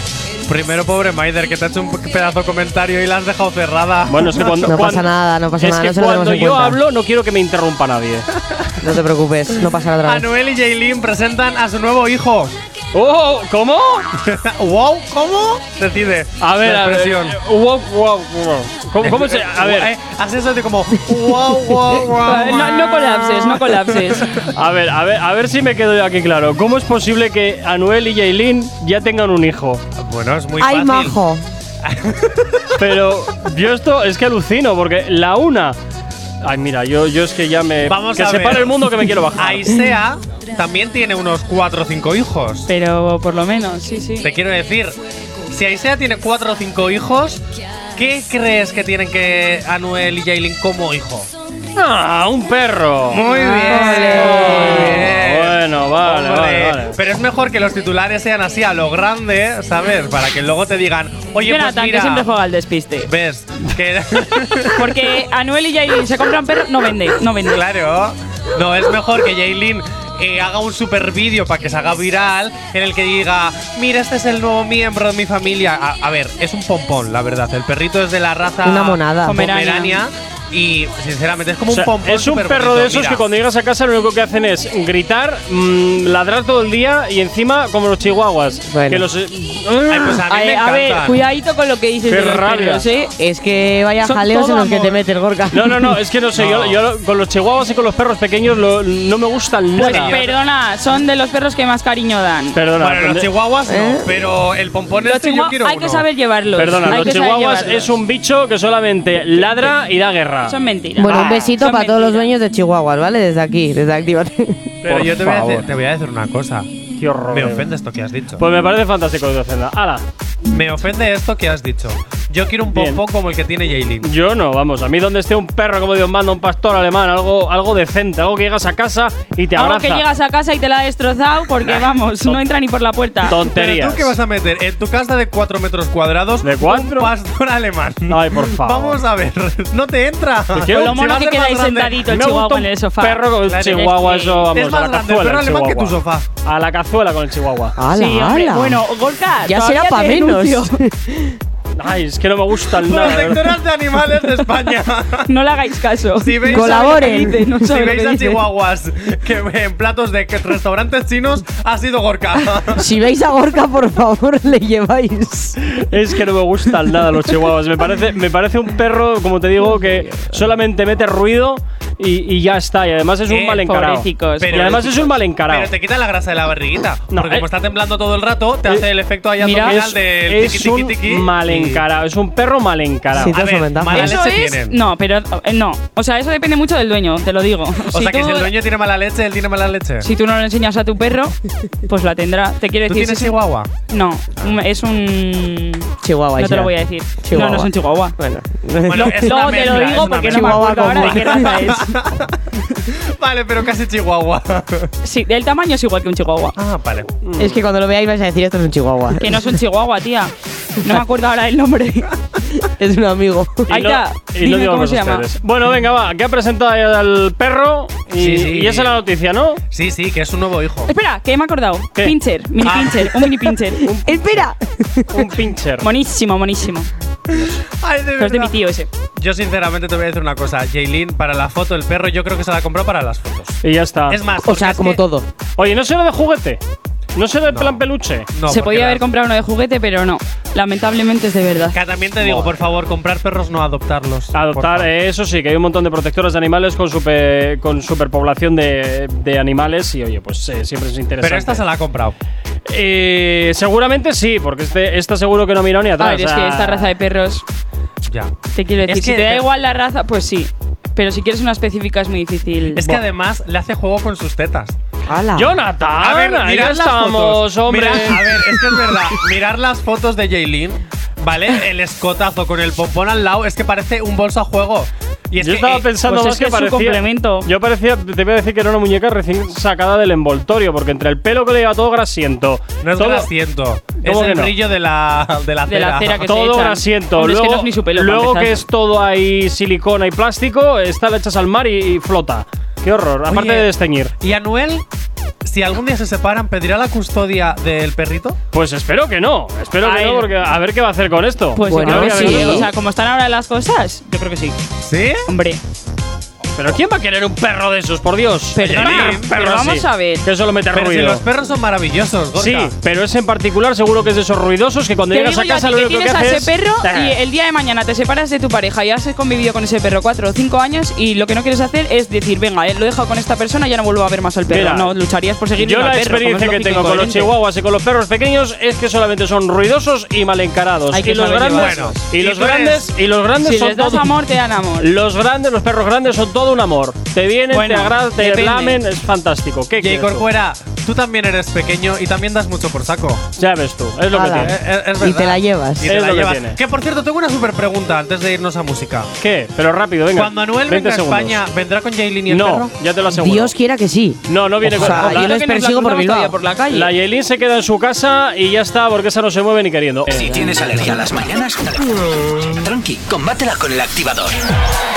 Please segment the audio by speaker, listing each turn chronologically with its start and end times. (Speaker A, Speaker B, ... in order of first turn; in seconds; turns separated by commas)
Speaker A: 0.5-4.8, Speaker B: 4.1-8.3, Speaker C: 4.5-6.8, Speaker C: 8.8-10.3, Speaker A: 10.1-12.6, Speaker B: 12.9-14.1, Speaker A: 14.2-17.4, Speaker B: 16.4-19.9, Speaker A: 19.0-24.5, Speaker D: 22.2-24.3, Speaker B: 24.5-29.8, Speaker A: 30.0-31.1, Speaker C: 30.6-31.4, Speaker A: 31.8-32.8, Speaker B: 32.8-35.8, Speaker B: 36.4-39.8, Speaker A: 37.9-42.7, Speaker D: 42.7-44.3, Speaker A: 44.2-45.0, Speaker A: 45.5-47.4, Speaker A: 48.0-51.3, Speaker B: 51.8-57.0, Speaker A: 53.1-62.3, Speaker D: 53.3-54.5, Speaker C: 53.6-54.7, Speaker D: 61.4-63.1, Speaker A: 63.0-65.0, Speaker D: 64.8-67.6, Speaker A: 67.5-83.2, Speaker C: 78.6-79.4, Speaker D: 79.2-80.0, Speaker B: 81.7-90.3, Speaker C: 88.7-89.1, Speaker A: 89.9-91.2, Speaker D: 90.3-93.1, Speaker B: 92.1-92.8, Speaker C: 93.2-96.0, Speaker D: 94.0-95.0, Speaker B: 95.5-100.2, Speaker A: 96.4-96.8, Speaker A: 99.8-100.4, Speaker D: 99.8-102.6, Speaker B: 102.5-103.3, Speaker A: 102.8-106.0, Speaker C: 103.7-104.1, Speaker D: 105.0-107.9, Speaker B: 106.6-110.6, Speaker D: 110.5-112.3, Speaker C: 111.0-114.8, Speaker A: 114.8-116.7, Speaker B: 114.8-115.7, Speaker B: 117.0-117.7, Speaker A: 117.3-118.4, Speaker B: 118.4-120.0, Speaker A: 120.5-124.1, Speaker B: 122.7-123.0, Speaker B: 124.0-130.1, Speaker D: 129.6-133.4, Speaker B: 131.7-132.4, Speaker B: 133.2-134.2, Speaker A: 133.4-142.1, Speaker B: 136.4-137.1, Speaker B: 138.1-139.0, Speaker B: 140.6-141.0, Speaker D: 140.7-144.4, Speaker B: 142.1-147.8, Speaker A: 143.5-146.3, Speaker C: 147.8-148.8, Speaker D: 147.9-150.8, Speaker C: 149.4-151.4, Speaker B: 151.8-153.6, Speaker A: 152.8-155.3, Speaker D: 155.3-158.4, Speaker A: 156.2-162.9, Speaker C: 156.5-157.4, Speaker C: 162.6-165.6, Speaker B: 165.7-175.7, Speaker A: 173.3-173.7, Speaker D: 173.7-174.9, Speaker A: 174.4-181.8, Speaker B: 177.1-177.5, Speaker D: 179.4-179.8, Speaker B: 179.6-183.4, Speaker A: 183.1-184.8, Speaker C: 183.2-184.2, Speaker D: 183.9-188.5, Speaker A: 187.9-190.1, Speaker D: 190.0-193.4, Speaker A: 192.9-193.7, Speaker D: 193.9-198.2, Speaker C: 196.0-201.8, Speaker A: 198.9-204.9, Speaker D: 199.0-201.9, Speaker D: 205.0-206.6, Speaker A: 206.6-207.1, Speaker B: 207.2-207.6, Speaker C: 207.4-209.6, Speaker D: 209.2-212.1, Speaker C: 212.6-213.7, Speaker D: 213.7-215.3, Speaker B: 213.7-219.6, Speaker A: 218.2-218.9, Speaker A: 219.7-220.9, Speaker D: 220.9-223.8, Speaker A: 222.6-223.3, Speaker B: 223.8-224.5, Speaker C: 223.9-225.3, Speaker B: 225.1-225.9, Speaker D: 225.8-226.9, Speaker A: 227.3-228.6, Speaker D: 228.2-228.9, Speaker A: 229.2-233.6, Speaker B: 233.6-234.2, Speaker A: 234.1-235.0, Speaker C: 234.4-235.3, Speaker B: 235.6-236.6, Speaker B: 237.2-238.3, Speaker A: 237.5-237.8, Speaker A: 238.3-239.0, Speaker D: 238.5-241.8, Speaker A: 241.7-244.9, Speaker B: 242.2-242.6, Speaker B: 244.3-251.7, Speaker A: 251.2-252.2, Speaker B: 252.7-256.9, Speaker D: 256.0-257.4, Speaker A: 258.1-259.5, Speaker D: 258.5-262.9, Speaker A: 262.7-264.8, Speaker C: 265.1-265.5, Speaker B: 265.4-268.5, Speaker A: 266.0-275.9, Speaker B: 275.4-283.3, Speaker D: 276.1-277.5, Speaker A: 282.8-286.2, Speaker B: 284.0-284.5, Speaker D: 285.7-288.6, Speaker B: 286.2-294.1, Speaker A: 293.3-293.7, Speaker A: 294.2-294.9, Speaker A: 295.4-298.4, Speaker B: 298.5-302.7, Speaker D: 299.8-300.3, Speaker D: 301.6-304.6, Speaker C: 301.6-302.7, Speaker A: 304.8-305.3, Speaker D: 305.3-305.6, Speaker B: 306.6-311.2, Speaker D: 308.5-310.3, Speaker A: 308.6-309.3, Speaker A: 310.7-312.7, Speaker B: 312.4-317.2, Speaker D: 315.1-327.3, Speaker B: 324.5-324.9, Speaker B: 325.6-334.2, Speaker D: 330.9-332.0, Speaker A: 331.5-332.9, Speaker D: 333.4-334.9, Speaker B: 334.8-340.3, Speaker D: 337.5-338.8, Speaker A: 339.8-343.2, Speaker B: 343.4-344.6, Speaker C: 344.1-345.9, Speaker A: 344.4-349.1, Speaker B: 345.9-346.6, Speaker B: 349.2-351.4, Speaker A: 350.1-352.7, Speaker B: 352.3-353.5, Speaker C: 353.1-356.4, Speaker B: 354.3-355.4, Speaker D: 354.8-356.9, Speaker B: 356.7-360.5, Speaker E: 360.1-364.4